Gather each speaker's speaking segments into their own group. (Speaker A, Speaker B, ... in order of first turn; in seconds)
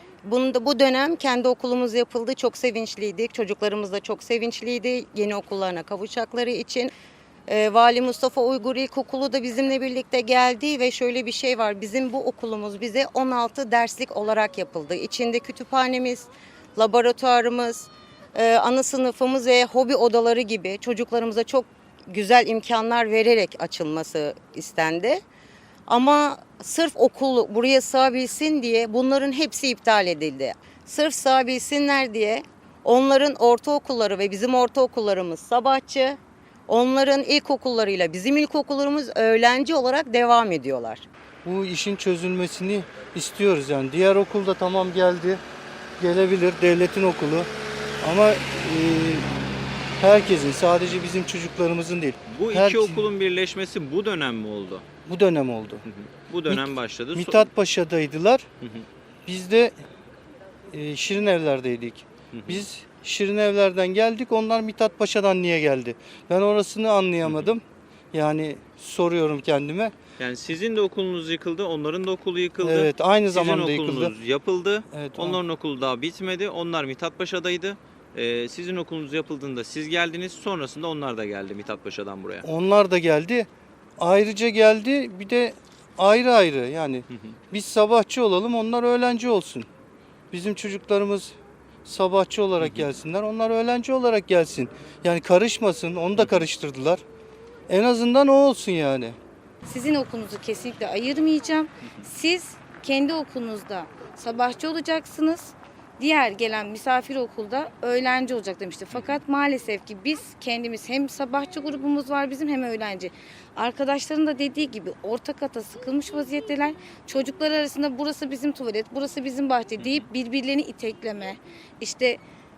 Speaker A: 0.2-6.9, 7.5-25.2, 25.9-41.0
Speaker B: 41.4-45.4, 46.0-47.5, 48.0-49.3, 50.0-53.0, 55.0-55.8, 56.5-58.5, 59.2-59.8, 60.7-69.9, 72.6-74.1, 74.9-75.4, 82.4-89.7, 90.3-97.0, 97.7-99.2
Speaker C: 52.3-54.8, 55.9-57.5, 62.3-62.6, 70.2-82.5, 92.6-92.9, 96.2-96.5, 108.9-109.2, 119.8-120.0
Speaker D: 99.6-122.2